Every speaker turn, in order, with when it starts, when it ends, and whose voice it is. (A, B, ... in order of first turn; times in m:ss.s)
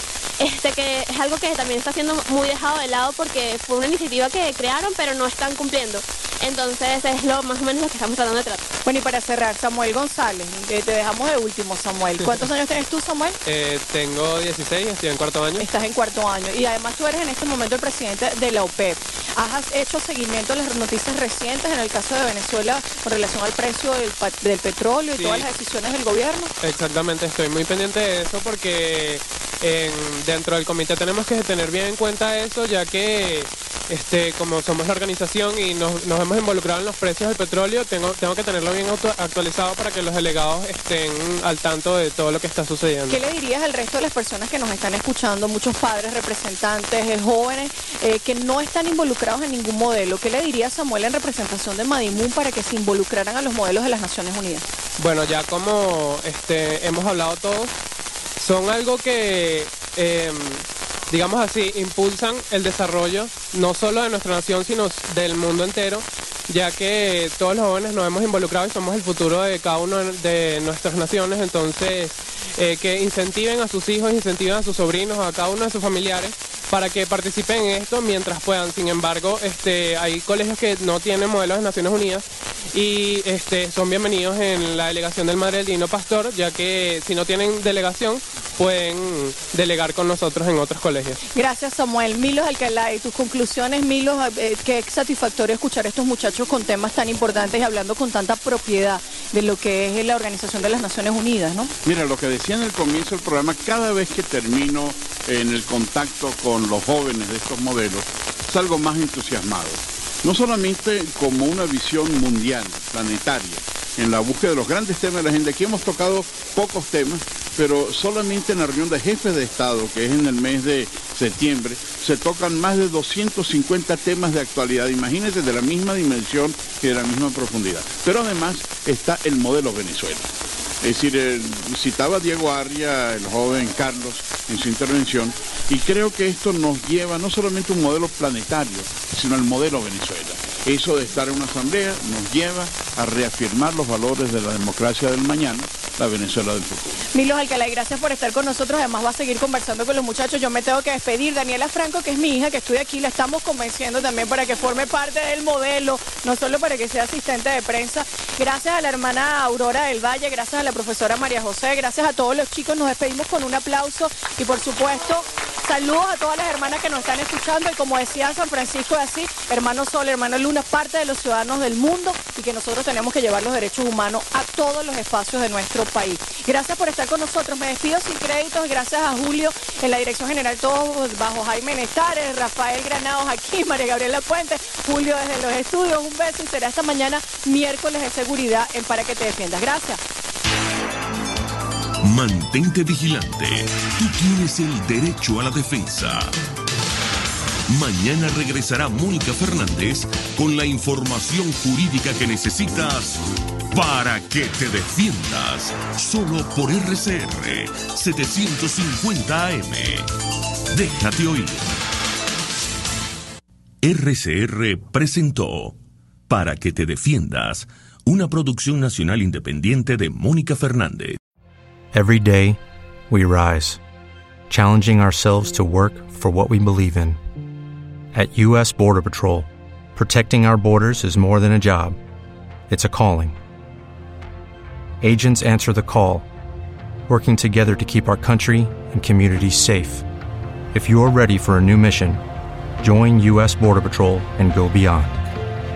0:00.4-0:08.6 A
0:08.9-0:13.4 B
0:13.4-0:15.7 C
0:15.6-0:26.5 B
0:25.2-0:25.5 C
0:26.6-0:43.2 C
0:43.1-0:54.6 B
0:55.0-0:57.7 C
0:58.4-1:31.2 C
1:31.3-1:41.7 B
1:41.8-2:10.3 D
2:10.8-2:27.0 D
2:27.1-3:10.0 B
3:12.0-3:16.4 E
3:17.7-3:30.1 E
3:30.7-3:31.8 E
3:33.8-3:35.8 E
3:36.3-3:41.2 E
3:41.9-3:42.6 F
3:43.1-3:43.8 F
3:44.5-3:47.2 F
3:48.1-3:52.0 F
3:52.7-3:53.4 F
3:55.0-3:56.3 F
3:57.1-4:00.0 F
4:00.7-4:02.2 F
4:02.8-4:05.2 F